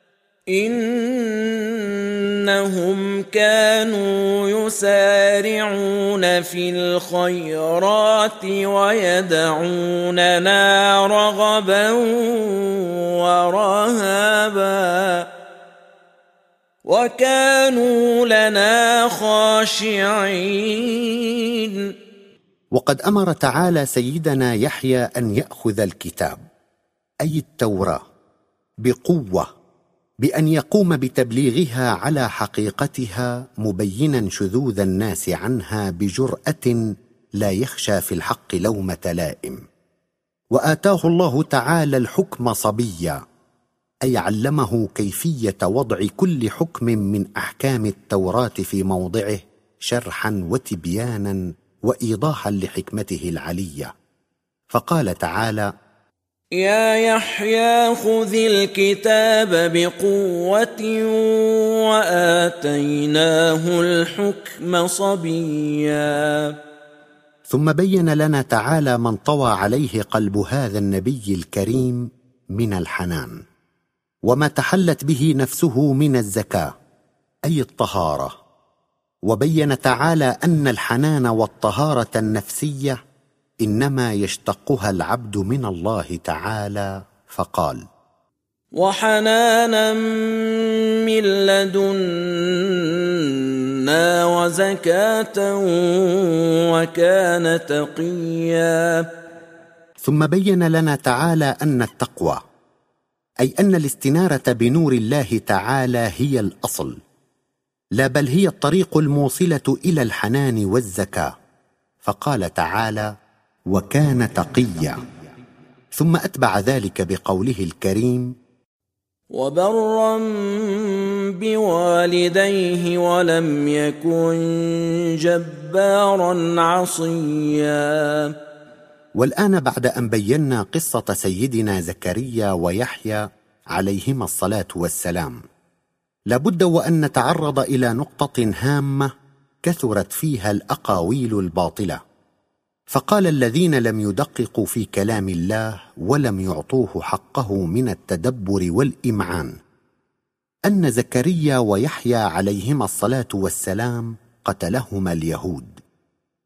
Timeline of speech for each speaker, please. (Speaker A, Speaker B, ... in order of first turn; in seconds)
Speaker A: 0.5-15.3, 16.8-21.9, 56.5-66.5, 88.8-99.1, 119.3-128.3
Speaker B: 22.8-26.4, 27.2-28.0, 28.8-29.5, 30.2-36.8, 37.4-39.6, 40.5-43.2, 44.0-53.9, 54.7-55.7, 67.5-73.4, 74.3-76.7, 77.5-78.3, 79.3-83.0, 83.6-87.8, 100.0-102.4, 103.4-107.0, 108.0-111.3, 112.0-113.1, 113.7-115.0, 115.9-118.3, 129.2-135.4, 136.3-139.1, 139.6-142.0, 142.9-149.5, 150.7-155.8